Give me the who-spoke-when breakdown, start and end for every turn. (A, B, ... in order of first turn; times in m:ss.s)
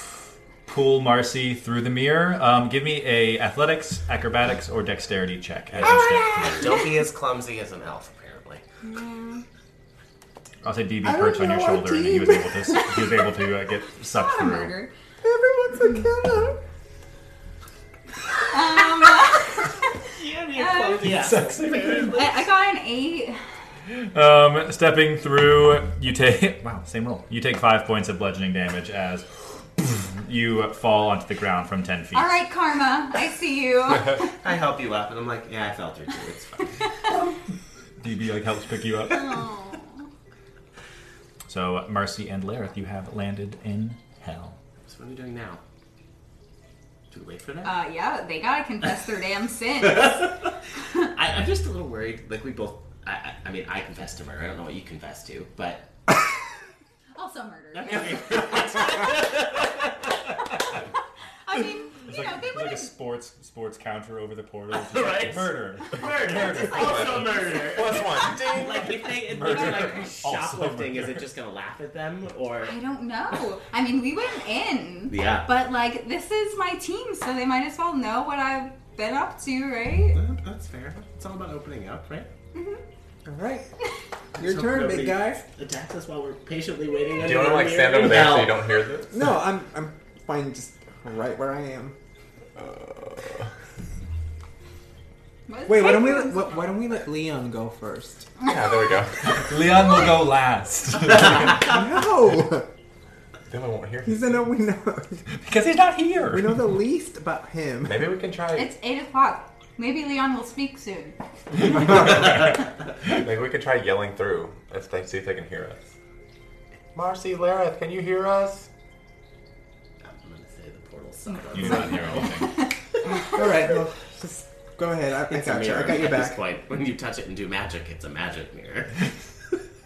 0:00.6-0:06.7 A
0:05.8-0:08.6 B
0:08.8-0:09.4 C
0:10.6-0:14.8 A
0:11.0-0:12.9 D
0:14.1-0:14.9 C
0:15.2-0:16.6 D
0:18.4-0:19.9 C
0:20.0-0:22.4 B
0:20.5-0:21.2 C
0:21.0-0:22.2 A
0:22.1-0:23.4 C
0:24.0-0:29.2 A
0:29.8-0:32.4 A
0:32.1-0:34.3 C
0:34.2-0:36.9 B
0:38.0-0:39.4 A
0:39.1-0:40.0 C
0:41.5-0:44.6 A
0:44.8-0:45.6 B
0:47.1-0:47.8 B
0:47.6-0:50.3 C
0:51.1-0:55.9 B
0:57.1-0:58.3 C
0:57.8-0:59.9 B
1:01.4-1:02.9 C
1:02.0-1:07.3 A
1:04.7-1:12.7 B
1:06.5-1:07.0 C
1:06.7-1:08.9 E
1:09.1-1:11.2 A
1:09.5-1:10.0 C
1:12.6-1:20.2 C
1:15.1-1:15.5 B
1:20.1-1:22.3 B
1:22.5-1:22.8 C
1:23.2-1:23.7 D
1:24.4-1:25.4 D
1:24.4-1:28.7 B
1:27.1-1:29.2 E
1:29.1-1:32.0 D
1:32.6-1:33.4 E
1:35.5-1:36.6 C
1:35.7-1:38.3 D
1:38.4-1:39.5 E
1:39.2-1:41.7 A
1:41.5-1:42.7 D
1:43.5-1:44.5 E
1:44.0-1:45.2 D
1:45.3-1:46.7 A
1:46.3-1:48.1 D
1:47.8-1:48.7 E
1:48.5-1:51.2 C
1:52.0-1:52.4 E
1:53.0-1:55.9 E
1:56.9-1:58.7 E
2:00.0-2:02.1 B
2:01.5-2:02.6 A
2:03.1-2:06.4 D
2:05.3-2:09.1 B